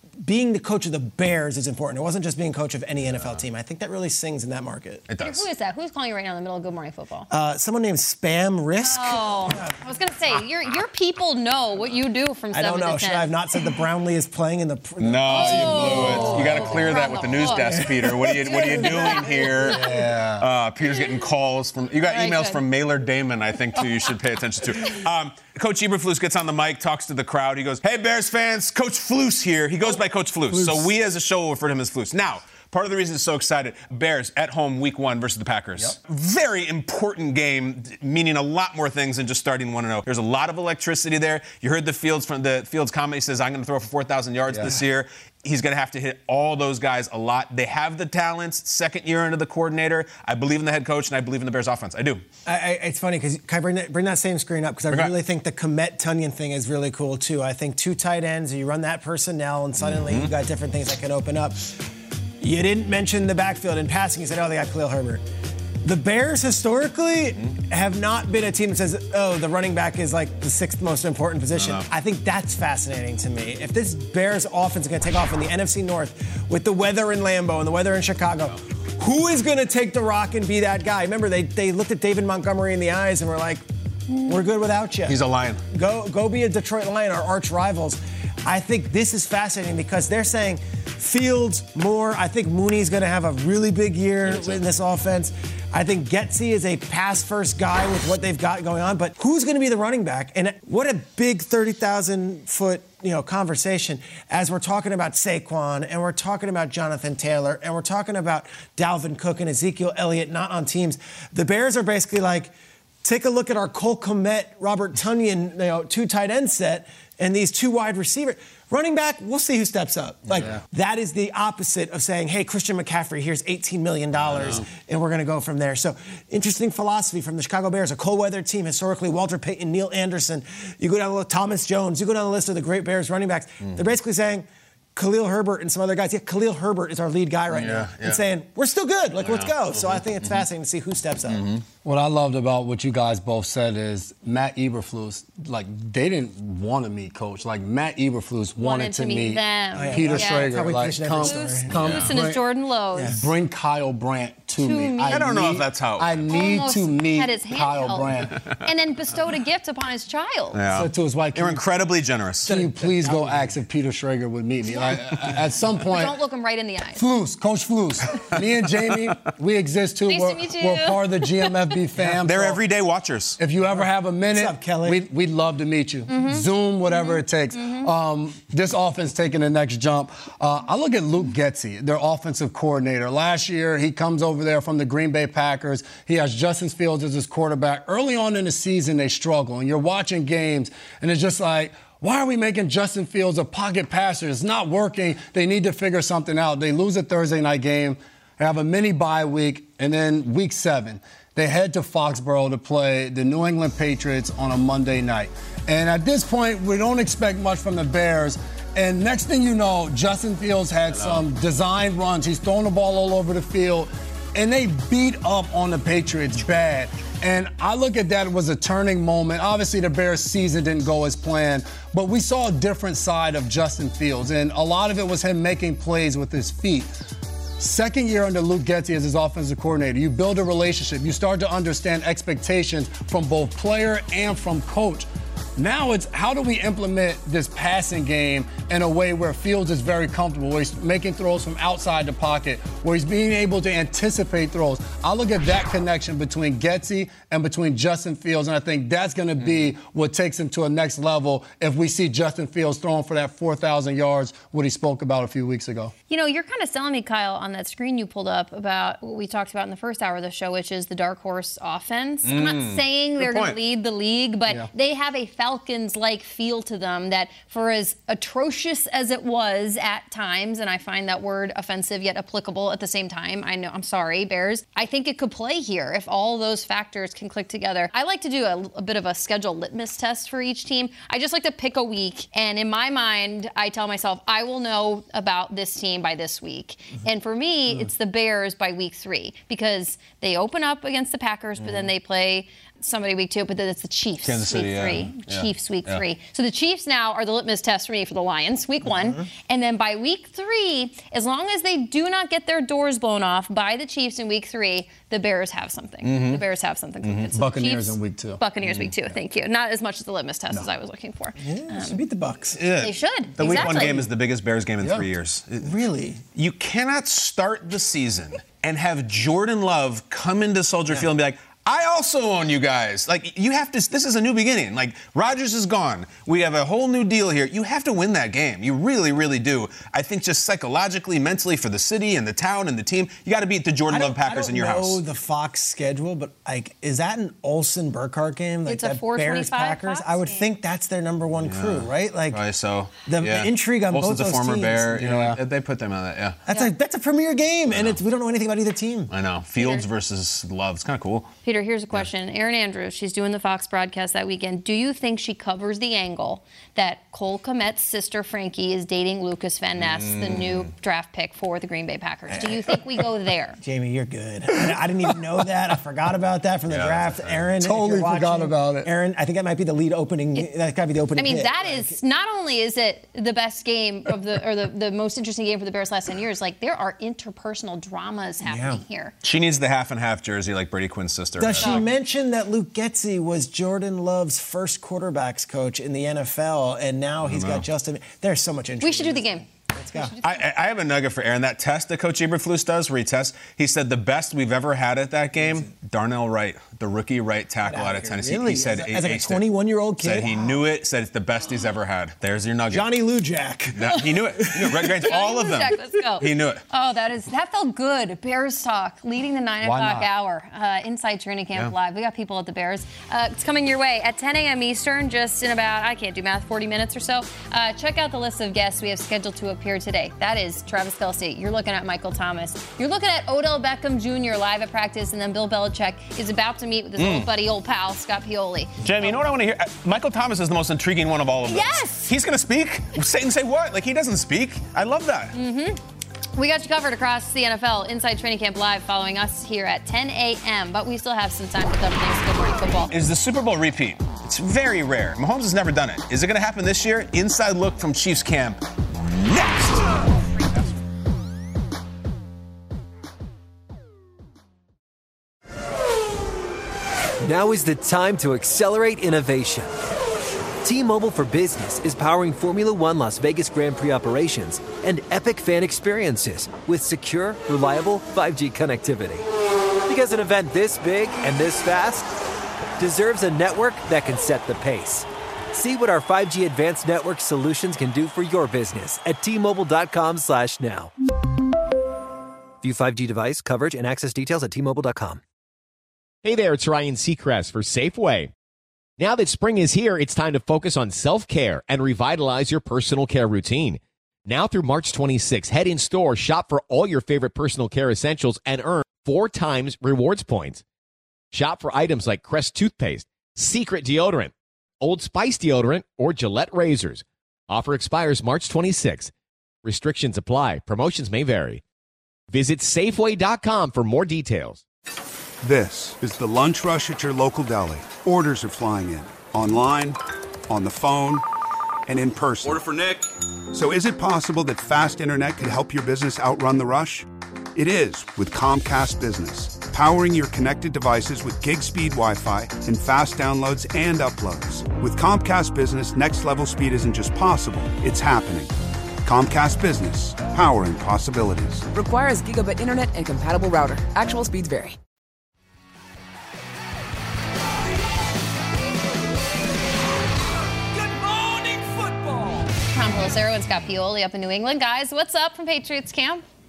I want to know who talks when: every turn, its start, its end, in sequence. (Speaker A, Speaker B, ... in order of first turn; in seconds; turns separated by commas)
Speaker A: 0.2-5.0, Speaker B: 3.1-3.4, Speaker B: 5.1-5.5, Speaker C: 5.2-7.3, Speaker A: 7.3-9.8, Speaker C: 8.8-13.3, Speaker A: 12.5-17.0, Speaker B: 15.0-19.8, Speaker C: 15.3-17.7, Speaker D: 15.5-16.9, Speaker A: 17.7-18.9, Speaker C: 18.4-19.7, Speaker D: 19.6-20.5, Speaker B: 20.4-52.2, Speaker C: 22.1-22.6, Speaker D: 30.5-30.9, Speaker A: 52.5-61.7, Speaker B: 59.8-60.3, Speaker A: 62.4-65.2, Speaker A: 65.8-83.6, Speaker B: 71.5-71.9, Speaker A: 84.2-85.2, Speaker B: 85.1-85.6, Speaker A: 85.7-141.5, Speaker B: 94.2-94.6, Speaker B: 120.3-120.6, Speaker B: 124.2-124.7, Speaker B: 133.6-133.9, Speaker B: 137.5-138.2, Speaker B: 139.2-140.5, Speaker B: 141.3-141.6, Speaker D: 141.8-152.4, Speaker C: 148.6-150.6, Speaker A: 149.8-151.8, Speaker C: 151.2-153.1, Speaker B: 151.8-152.1, Speaker A: 152.9-153.2, Speaker D: 153.1-158.3, Speaker C: 154.6-155.3, Speaker B: 155.1-156.2, Speaker C: 156.3-160.6, Speaker B: 160.5-162.6, Speaker D: 160.7-161.6, Speaker D: 162.5-166.2, Speaker A: 162.9-163.3, Speaker C: 164.7-164.9, Speaker C: 165.9-167.1, Speaker D: 167.0-172.6, Speaker C: 170.1-171.8, Speaker B: 172.1-173.4, Speaker D: 173.4-226.9, Speaker A: 174.3-175.0, Speaker C: 176.1-177.9, Speaker B: 210.9-211.2, Speaker D: 227.6-255.9, Speaker C: 256.1-312.0, Speaker B: 262.2-263.6, Speaker B: 294.2-296.0, Speaker B: 306.0-306.4, Speaker B: 307.1-307.3, Speaker D: 307.3-308.4, Speaker B: 308.6-308.9, Speaker A: 311.4-312.6, Speaker B: 312.6-315.8, Speaker C: 312.8-314.1, Speaker A: 313.4-313.8, Speaker D: 314.8-315.1, Speaker A: 315.6-316.2, Speaker B: 316.3-335.0, Speaker A: 333.9-342.4, Speaker C: 338.7-340.5, Speaker B: 341.4-346.4, Speaker A: 343.1-345.0, Speaker D: 344.9-345.4, Speaker A: 346.5-349.1, Speaker B: 347.7-348.0, Speaker B: 349.1-351.3, Speaker C: 349.6-349.9, Speaker C: 351.4-363.6, Speaker B: 359.8-360.7, Speaker A: 362.3-362.8, Speaker A: 363.6-372.0, Speaker B: 366.7-367.5, Speaker D: 367.6-368.9, Speaker C: 371.2-379.1, Speaker A: 378.4-378.8, Speaker B: 379.2-381.9, Speaker A: 381.4-390.1, Speaker C: 381.6-381.9, Speaker B: 387.2-387.7, Speaker C: 388.8-390.4, Speaker B: 390.2-399.4, Speaker A: 397.6-400.6, Speaker B: 400.0-402.9, Speaker A: 402.7-405.1, Speaker B: 403.8-406.6, Speaker C: 405.0-429.2, Speaker D: 409.6-410.1, Speaker B: 427.0-427.3, Speaker B: 428.8-435.4, Speaker C: 431.5-432.1, Speaker C: 435.3-435.8, Speaker C: 436.4-443.0, Speaker B: 442.9-450.1, Speaker E: 457.2-459.7, Speaker E: 460.6-469.3, Speaker E: 469.9-472.1, Speaker E: 472.8-480.9, Speaker E: 482.6-485.2, Speaker F: 486.2-488.3, Speaker F: 489.0-500.6, Speaker F: 501.3-509.1, Speaker F: 509.6-511.6, Speaker F: 512.3-514.6, Speaker G: 515.4-520.0, Speaker G: 520.5-521.2, Speaker G: 521.9-522.6, Speaker G: 523.5-541.7, Speaker H: 541.7-544.8, Speaker C: 552.7-556.2